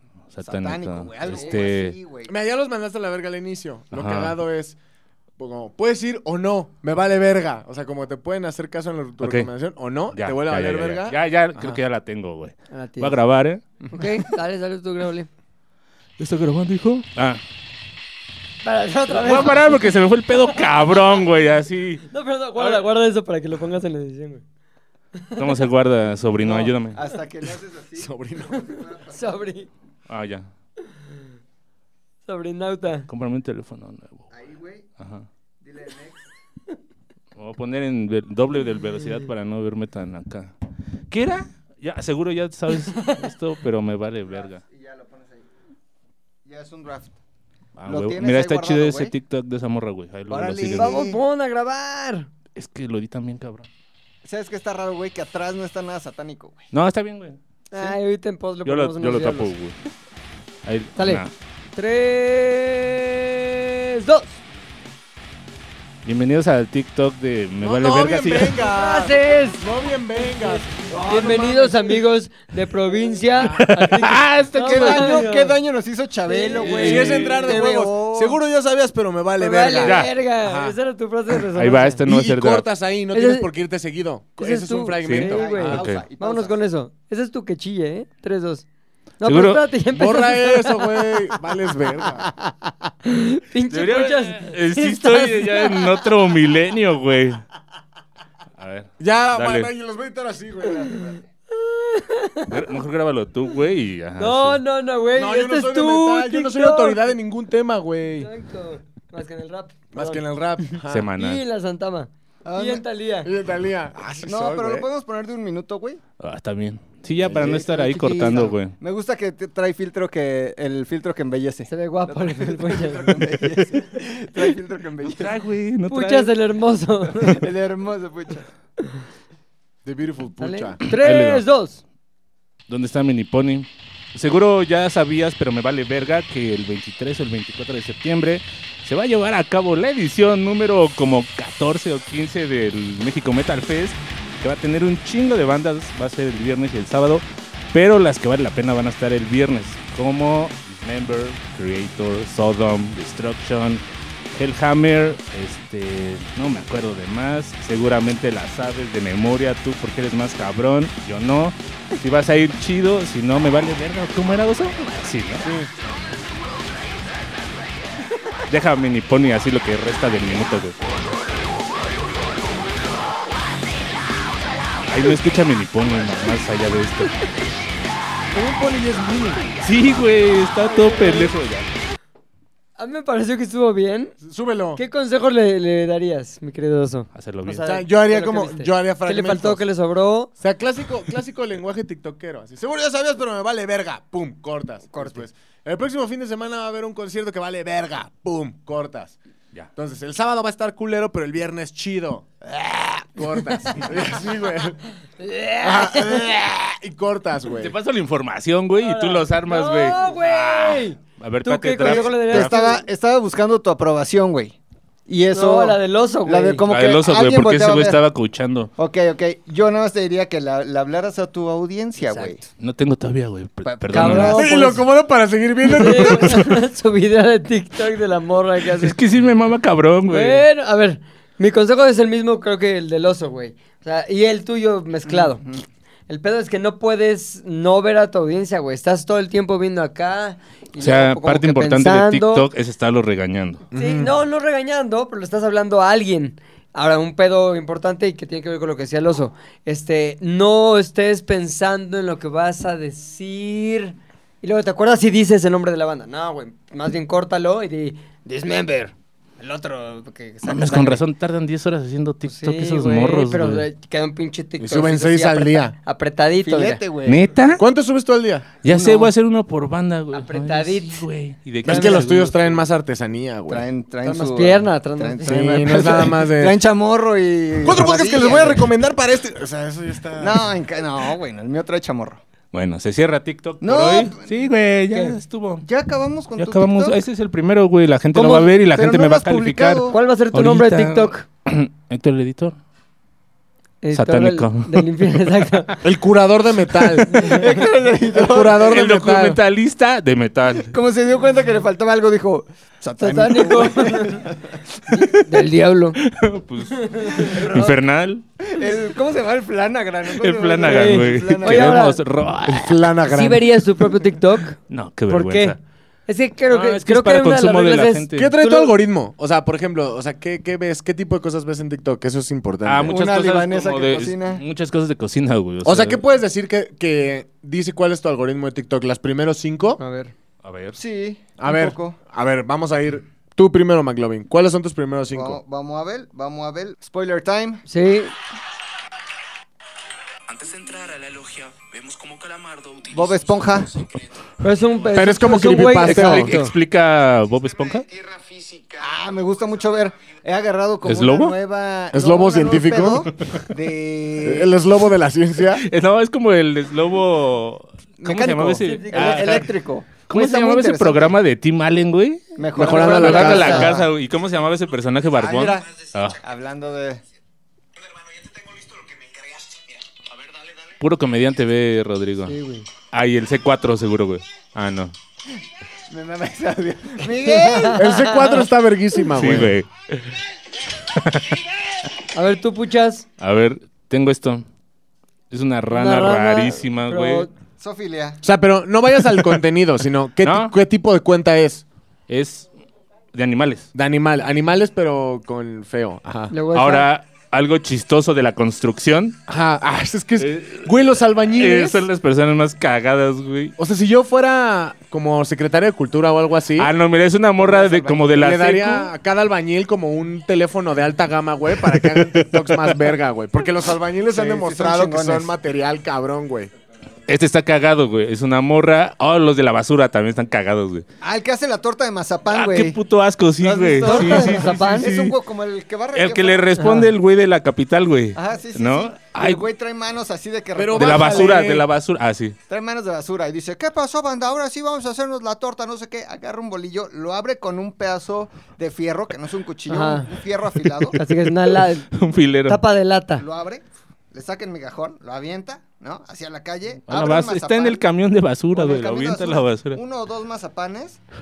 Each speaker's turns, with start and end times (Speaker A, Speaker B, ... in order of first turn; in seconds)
Speaker A: 0.3-2.0, 3.9-4.4, 9.2-9.5, 10.1-13.6, 16.2-17.4, 19.1-22.1, 25.4-27.0, 30.1-30.5, 33.1-34.2, 35.0-35.3, 37.4-40.5, 41.1-44.6, 47.8-51.0, 52.6-53.7, 56.7-57.9, 58.6-59.8, 60.6-61.3, 66.0-68.6, 73.5-75.2, 76.6-77.4, 79.8-80.1, 81.3-82.7, 85.0-86.0, 89.2-89.6, 93.7-97.4, 98.6-99.7, 102.5-104.6, 110.9-111.4, 116.2-118.8, 125.0-126.3, 130.9-131.4, 132.7-153.8, 154.3-165.5, 168.5-170.8, 174.9-177.1, 179.6-181.7, 187.1-187.6, 207.5-212.6, 216.7-218.7, 222.6-224.5, 226.2-226.4, 228.7-230.4, 240.8-243.6, 260.4-263.7, 267.1-267.6, 268.6-272.6, 282.5-285.7, 286.4-292.6, 293.9-294.9, 298.6-300.7, 304.9-305.3, 306.0-308.2, 310.1-312.9, 314.7-315.6, 316.5-318.3, 322.6-326.0, 330.4-330.8, 345.8-347.9, 350.8-351.4, 355.5-359.5, 360.1-366.2, 370.8-372.4, 372.9-374.9, 379.1-380.2, 380.9-381.4, 383.2-384.4, 385.3-387.3, 389.1-389.4, 390.2-390.5, 392.1-392.5, 393.1-393.7, 396.5-399.2, 400.2-400.7, 401.3-403.6, 406.6-408.9, 411.6-412.9, 417.1-420.9, 422.3-425.1, 425.9-429.4, 430.8-432.4, 440.9-442.6, 446.9-449.8
Speaker B: 0.4-2.3, 26.5-29.4, 34.3-34.9, 35.6-36.2, 44.5-45.5, 46.5-47.2, 47.9-49.1, 50.3-51.2, 54.2-56.7, 74.6-78.4, 85.3-86.6, 112.5-112.8, 114.2-116.0, 117.3-125.3, 127.2-128.5, 211.8-214.6, 215.1-218.0, 218.8-222.4, 223.6-224.5, 235.1-235.6, 259.4-261.0, 266.4-267.3, 268.7-269.1, 273.5-278.7, 280.2-282.2, 283.6-284.2, 285.6-287.0, 288.5-290.0, 297.2-298.8, 300.6-304.6, 307.3-307.8, 308.4-312.0, 322.9-324.4, 330.7-332.0, 335.1-337.6, 342.9-343.7, 348.8-354.6, 358.0-361.1, 362.4-363.9, 365.2-367.0, 375.9-378.1, 387.6-388.2, 407.6-408.0, 414.1-415.3, 421.0-422.8, 423.4-426.5, 428.1-431.5, 432.5-441.0, 443.2-447.8, 448.5-451.0
Speaker C: 1.3-1.6, 12.7-13.2, 13.9-15.3, 18.6-19.8, 22.1-24.4, 25.1-25.6, 29.1-29.7, 32.3-33.1, 50.7-52.3, 57.7-59.5, 61.0-61.2, 61.8-64.4, 68.6-69.6, 70.4-75.6, 76.3-77.8, 79.4-82.0, 83.1-83.5, 84.4-88.6, 89.2-91.1, 93.0-96.1, 101.5-102.6, 104.2-107.0, 108.2-110.2, 111.2-113.3, 121.7-123.5, 125.9-127.4, 130.4-131.8, 182.8-184.1, 184.8-190.3, 194.9-195.2, 205.2-206.3, 208.8-212.8, 215.3-216.6, 222.1-222.4, 223.9-224.8, 225.6-229.0, 230.1-235.4, 236.1-242.5, 243.7-258.9, 262.2-266.8, 270.1-271.1, 271.6-272.2, 274.1-276.1, 288.1-288.5, 289.9-291.2, 293.8-295.8, 297.2-297.4, 303.0-304.3, 304.9-306.0, 306.8-307.4, 310.6-312.0, 313.1-314.6, 315.1-318.7, 329.8-330.1, 337.7-338.1, 344.4-346.5, 358.6-359.4, 363.3-363.7, 372.3-372.7, 377.2-378.4, 382.1-383.1, 385.7-387.3, 396.3-396.9, 423.8-424.9, 426.6-426.9, 439.7-440.1, 440.9-441.9, 442.5-443.2
Speaker D: 2.3-4.8, 5.4-11.8, 28.0-28.6, 67.6-72.0, 73.4-74.0, 76.6-80.8, 82.1-85.9, 89.9-92.3, 99.0-101.1, 105.1-108.3, 109.9-111.1, 113.2-114.9, 117.2-117.6, 129.8-130.8, 165.4-165.7, 178.3-179.6, 184.2-184.8, 187.6-189.6, 190.4-199.2, 199.8-204.8, 205.6-207.7, 224.2-226.5, 243.7-244.1, 264.6-265.8, 267.6-268.5, 271.6-273.7, 275.2-276.6, 277.6-280.5, 295.8-297.3, 298.1-299.4, 312.5-313.6, 318.1-323.0, 325.6-329.8, 331.4-335.4, 344.9-346.4, 351.9-353.1, 354.2-355.6, 362.6-363.8, 377.8-379.6, 388.2-391.6, 393.7-396.3, 399.3-401.9, 403.6-406.7, 408.0-416.5, 430.6-431.6
Speaker E: 340.3-343.0, 348.1-348.7, 368.4-369.4